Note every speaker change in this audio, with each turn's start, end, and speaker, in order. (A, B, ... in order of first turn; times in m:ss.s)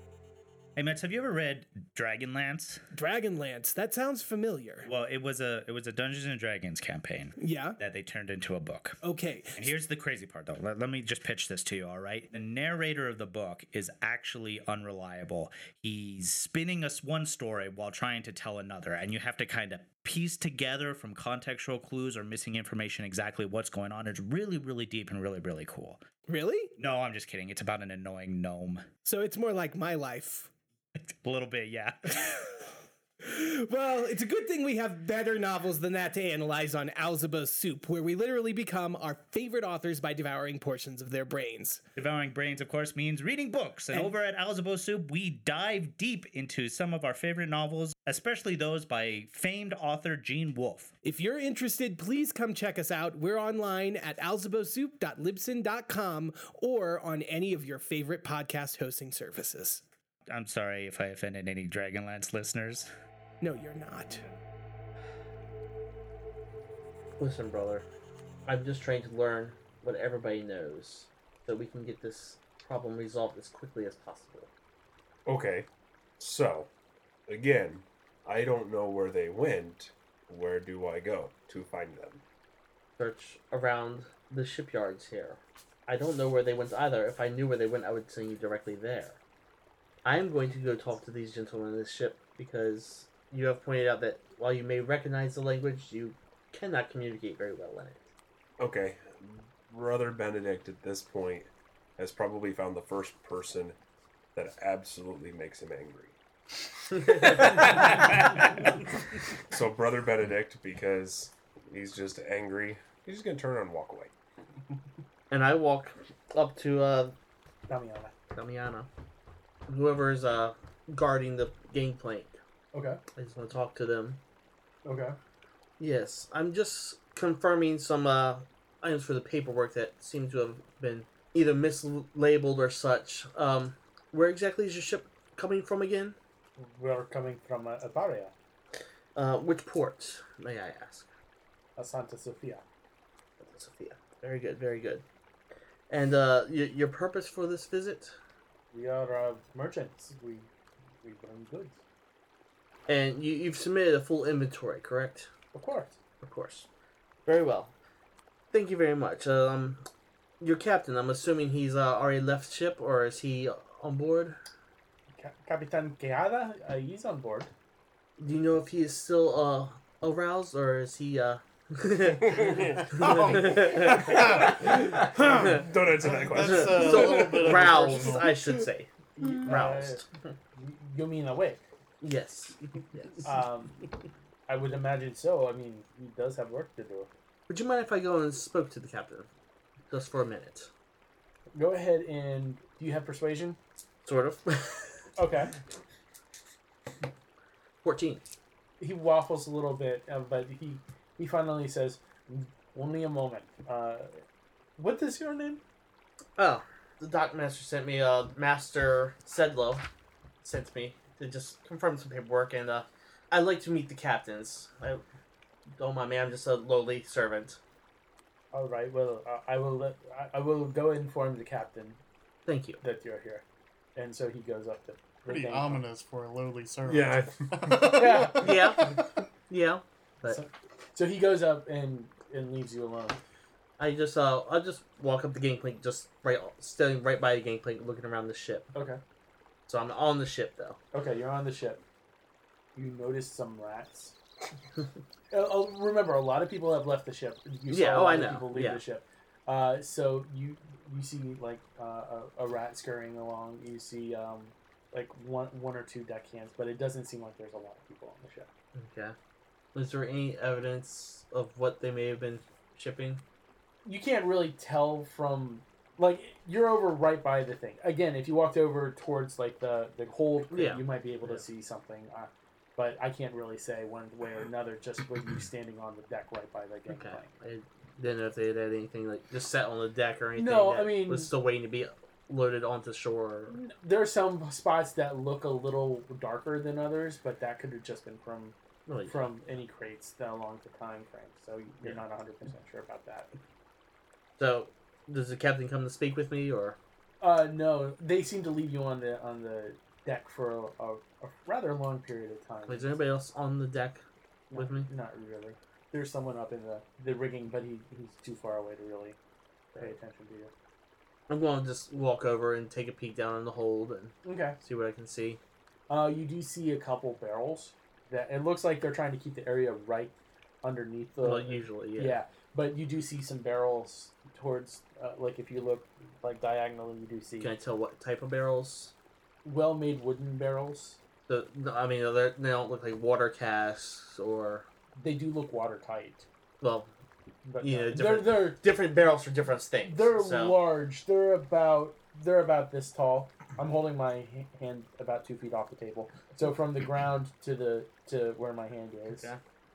0:00.8-0:02.8 A
0:02.9-0:04.9 B
0:04.8-0:09.0 A
0:07.4-0:07.8 B
0:09.0-0:09.7 B
0:09.6-0:26.0 A
0:26.3-0:26.8 B
0:26.8-0:28.9 A
0:29.0-0:30.5 B
0:31.0-0:32.4 A
0:33.2-0:41.8 B
0:42.0-0:50.9 A
0:51.0-0:59.8 B
1:00.3-1:02.9 A
1:03.4-1:04.2 B
1:07.2-1:07.9 C
1:08.5-1:14.5 C
1:15.3-1:15.7 D
1:16.2-1:16.7 D
1:17.3-1:22.2 D
1:23.0-1:29.2 C
1:30.0-1:38.0 C
1:38.6-1:43.8 D
1:44.4-1:46.2 D
1:46.9-1:48.9 D
1:49.5-1:54.1 D
1:55.3-1:57.2 C
1:57.7-1:58.1 E
1:58.3-1:58.9 C
1:59.7-2:02.4 C
2:02.7-2:03.0 E
2:03.2-2:04.2 C
2:04.9-2:05.2 E
2:05.8-2:16.2 C
2:16.6-2:18.3 E
2:19.2-2:21.1 C
2:21.8-2:22.6 E
2:23.4-2:25.0 C
2:25.9-2:28.2 C
2:28.7-2:30.5 E
2:31.0-2:31.8 E
2:32.9-2:35.3 C
2:35.5-2:36.0 E
2:36.2-2:36.7 C
2:37.2-2:37.7 C
2:38.5-2:39.8 C
2:40.4-2:44.4 C
2:45.2-2:47.5 E
2:48.2-2:55.7 C
2:52.2-2:57.6 D
2:52.8-2:58.4 F
2:56.4-3:00.0 C
2:59.2-3:00.0 E
3:00.6-3:01.6 E
3:02.0-3:03.3 C
3:03.2-3:03.9 E
3:04.5-3:07.1 E
3:07.5-3:09.3 C
3:09.9-3:10.7 C
3:11.5-3:13.6 E
3:14.0-3:15.0 C
3:15.2-3:15.5 E
3:17.8-3:18.3 C
3:18.8-3:24.2 E
3:24.8-3:25.6 E
3:26.4-3:29.9 C
3:30.4-3:35.0 C
3:35.8-3:37.6 C
3:38.5-3:42.0 E
3:42.5-3:42.8 C
3:42.8-3:43.4 E
3:44.0-3:45.8 E
3:45.3-3:48.6 F
3:46.8-3:48.2 D
3:47.9-3:48.5 E
3:48.4-3:49.0 C
3:49.5-3:50.4 C
3:50.3-3:53.2 E
3:53.8-3:58.7 C
3:58.7-3:59.0 E
3:59.7-4:00.8 C
4:00.9-4:01.8 E
4:02.8-4:04.2 E
4:05.3-4:18.5 E
4:07.7-4:08.8 C
4:18.8-4:19.2 C
4:19.8-4:23.2 C
4:23.8-4:37.3 E
4:30.5-4:31.4 C
4:36.9-4:43.6 C
4:40.4-4:41.3 E
4:43.5-4:48.6 E
4:48.9-4:49.2 C
4:49.1-4:53.3 E
4:54.4-4:56.8 C
4:57.2-5:03.0 E
5:02.7-5:04.9 C
5:04.5-5:09.2 E
5:09.8-5:10.5 E
5:11.3-5:15.4 C
5:14.2-5:14.6 E
5:15.9-5:27.5 E
5:21.2-5:22.2 C
5:27.4-5:28.9 C
5:29.4-5:31.0 E
5:31.3-5:34.7 C
5:35.0-5:36.3 E
5:36.6-5:36.9 C
5:37.4-5:38.6 E
5:37.6-5:40.6 C
5:39.9-5:49.3 E
5:49.1-5:49.4 C